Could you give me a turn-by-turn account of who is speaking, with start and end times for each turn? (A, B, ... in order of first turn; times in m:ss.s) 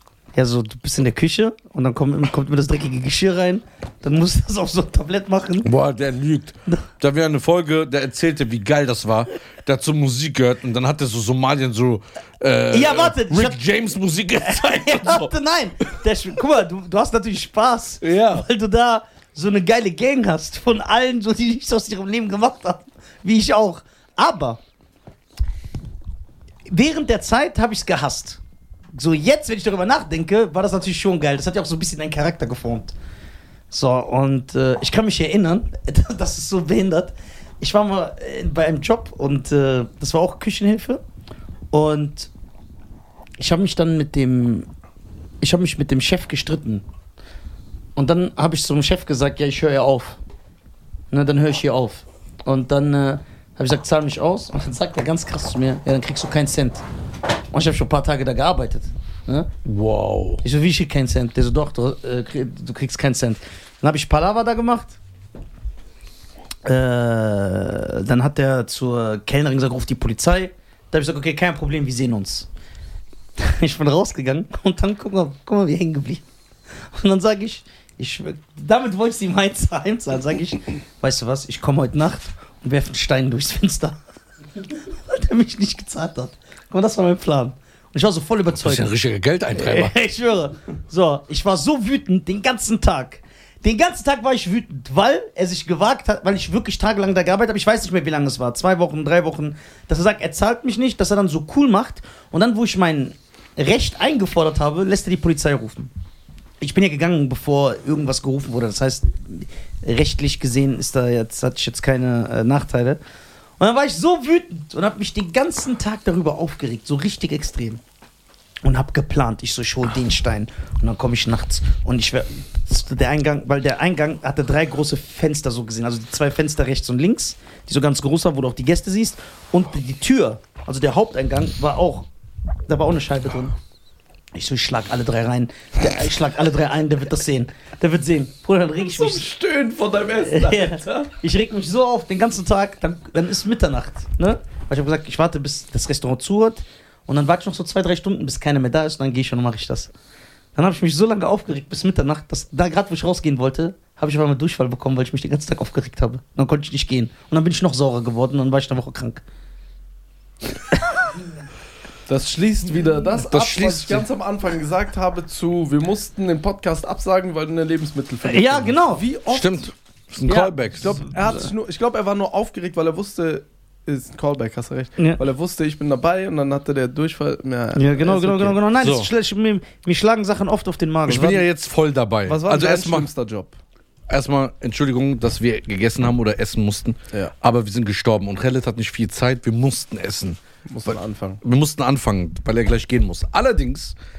0:00.3-0:05.7 A
0:05.6-0:15.3 B
0:12.7-0:13.6 A
0:14.4-0:24.6 A
0:18.0-0:18.4 C
0:26.7-0:28.4 A
0:28.9-0:32.9 A
0:33.7-0:41.0 A
0:41.7-0:42.3 A
0:43.4-0:44.7 A
0:45.4-0:46.8 A
0:48.0-0:50.2 A
0:51.1-0:56.8 A
0:57.5-0:59.5 A
0:59.6-1:00.4 B
1:00.4-1:05.0 A
1:06.6-1:12.5 A
1:13.4-1:16.2 A
1:16.9-1:24.0 A
1:24.9-1:28.9 A
1:28.6-1:29.9 B
1:29.5-1:45.9 A
1:46.6-1:53.0 A
1:53.6-1:57.8 A
1:58.6-2:12.1 A
2:12.7-2:13.5 A
2:14.3-2:19.3 A
2:18.8-2:21.1 C
2:20.3-2:29.9 A
2:30.5-2:39.2 A
2:42.1-2:49.6 C
2:43.2-2:44.0 B
2:48.2-2:49.0 A
2:49.3-2:51.0 B
2:50.3-2:50.5 A
2:50.8-2:58.6 C
2:57.7-3:01.4 A
2:58.8-2:59.1 B
3:01.0-3:03.1 B
3:02.2-3:03.6 C
3:04.1-3:14.0 B
3:10.6-3:11.4 C